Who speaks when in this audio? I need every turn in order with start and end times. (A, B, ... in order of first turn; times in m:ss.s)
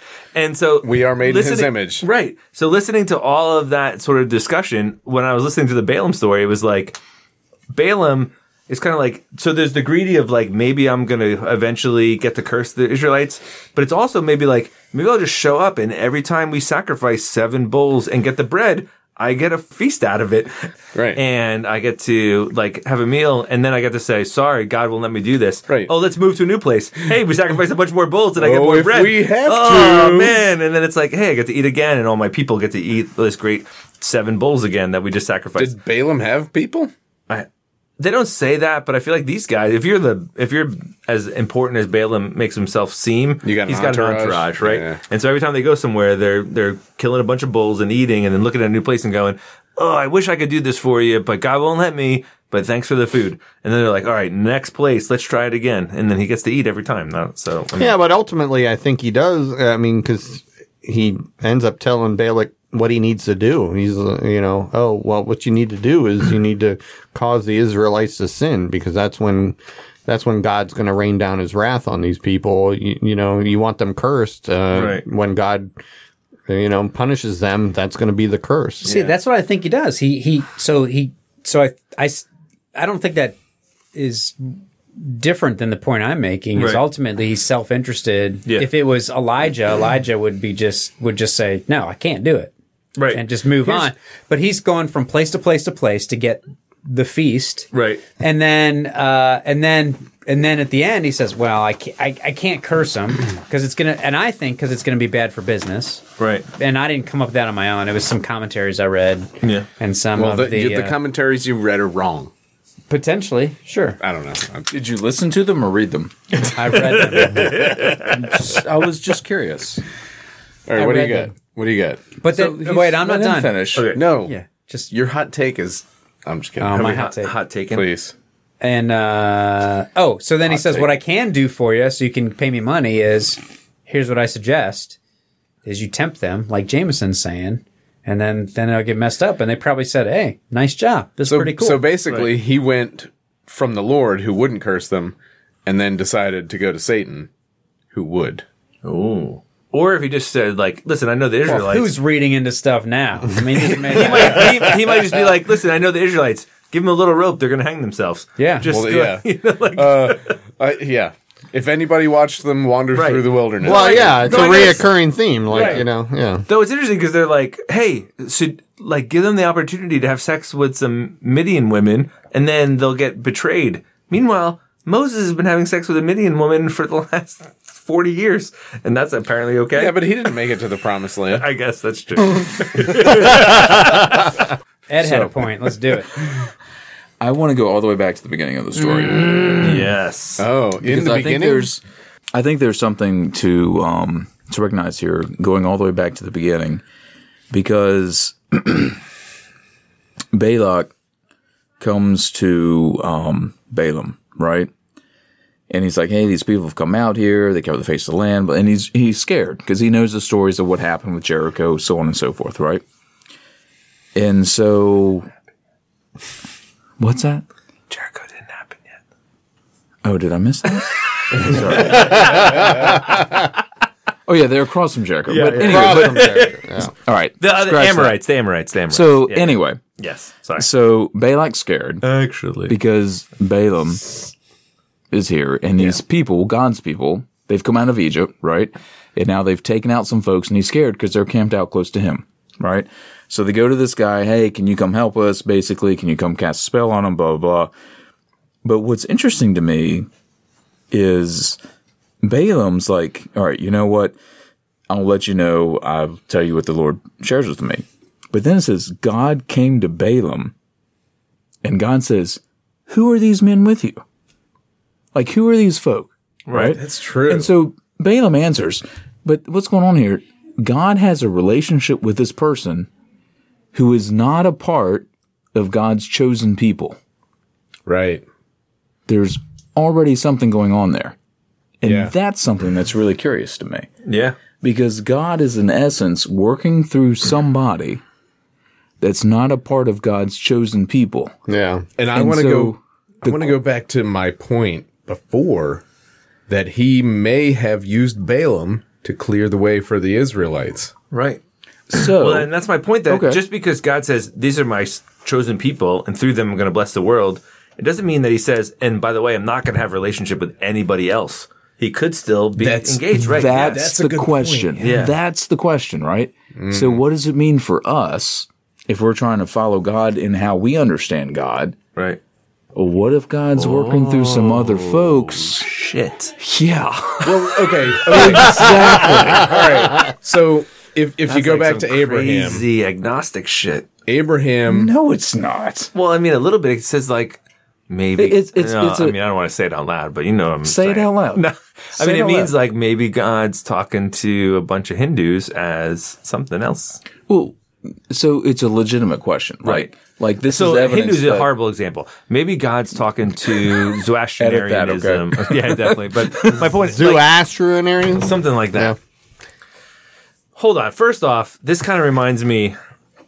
0:00.3-0:07.0 A
0:00.8-0:02.0 B
0:07.7-0:35.8 A
0:20.9-0:21.2 B
0:28.4-0:30.4 B
0:35.6-0:36.9 B
0:38.0-0:58.0 A
0:43.4-0:45.0 B
0:57.8-1:15.7 C
1:14.7-1:15.0 A
1:16.5-1:18.9 C
1:18.8-1:19.2 A
1:18.8-1:23.4 D
1:23.9-1:32.5 D
1:26.6-1:26.8 A
1:33.0-1:33.9 A
1:33.1-1:46.0 D
1:37.7-1:38.0 A
1:46.2-1:46.4 A
1:46.6-1:51.0 D
1:50.2-1:52.3 B
1:52.9-1:54.0 D
1:54.0-1:54.7 B
1:54.7-1:56.4 E
1:56.4-1:57.8 D
1:57.0-1:58.2 A
1:57.6-1:59.8 E
2:00.7-2:02.1 B
2:00.7-2:01.3 D
2:02.2-2:04.9 D
2:02.3-2:03.9 E
2:03.7-2:04.0 A
2:03.9-2:04.3 B
2:04.9-2:06.9 B
2:06.6-2:07.3 D
2:06.7-2:07.9 A
2:07.7-2:08.1 B
2:08.6-2:15.0 D
2:15.6-2:21.9 D
2:21.3-2:27.3 B
2:22.1-2:22.3 A
2:27.9-2:28.4 B
2:28.8-2:31.9 A
2:31.4-2:34.8 D
2:33.6-2:40.3 A
2:38.4-2:38.7 D
2:38.7-2:44.8 B
2:42.9-2:44.9 A
2:43.6-2:46.4 C
2:45.5-2:45.8 A
2:45.5-2:45.8 B
2:46.5-3:00.0 A
2:59.7-3:01.4 B
3:01.3-3:04.3 A
3:04.9-3:06.1 D
3:05.0-3:05.4 E
3:07.2-3:09.9 E
3:09.5-3:10.4 A
3:10.4-3:11.7 B
3:10.8-3:11.8 E
3:12.3-3:16.8 E
3:17.5-3:19.0 E
3:20.3-3:20.9 E
3:21.8-3:24.7 E
3:25.7-3:32.8 E
3:34.1-3:35.3 E
3:37.0-3:37.4 E
3:37.9-3:39.0 A
3:40.0-3:42.7 E
3:41.9-3:42.9 A
3:42.0-3:42.8 C
3:44.3-3:46.4 E
3:45.3-3:46.6 A
3:45.5-3:46.9 C
3:47.0-3:48.2 E
3:47.4-3:50.7 A
3:48.9-3:49.8 E
3:50.6-3:52.0 E
3:52.0-3:52.7 A
3:52.7-3:54.3 E
3:55.1-4:07.7 E
4:08.6-4:10.1 E
4:10.9-4:11.6 E
4:12.2-4:14.1 E
4:14.9-4:20.5 E
4:21.6-4:24.0 E
4:25.1-4:32.9 E
4:26.5-4:26.8 A
4:26.5-4:27.5 B
4:33.7-4:37.0 E
4:37.9-4:38.2 B
4:39.1-4:41.2 E
4:41.8-4:43.9 E
4:41.8-4:42.1 B
4:44.0-4:44.4 A
4:44.6-4:48.0 E
4:49.0-4:51.3 E
4:51.5-4:51.8 C
4:52.0-4:55.8 B
4:52.1-4:53.6 E
4:56.5-5:00.9 B
5:01.1-5:01.4 A
5:01.9-5:02.5 E
5:02.0-5:13.9 A
5:03.1-5:03.4 E
5:12.6-5:15.0 B
5:13.1-5:21.8 E
5:14.8-5:15.1 A
5:16.6-5:17.0 B
5:22.7-5:25.7 E
5:23.6-5:26.4 A
5:26.4-5:29.8 E
5:27.2-5:32.6 B
5:31.2-5:33.9 A
5:34.1-5:34.9 B
5:34.6-5:35.9 E
5:35.9-5:47.0 A
5:38.2-5:39.1 E
5:40.6-5:42.5 E
5:47.3-5:47.6 E
5:48.1-5:51.5 E
5:49.6-5:49.9 A
5:50.5-5:57.3 A
5:54.4-5:56.6 E
5:56.8-5:59.0 C
5:58.2-5:59.0 A
6:00.6-6:02.8 A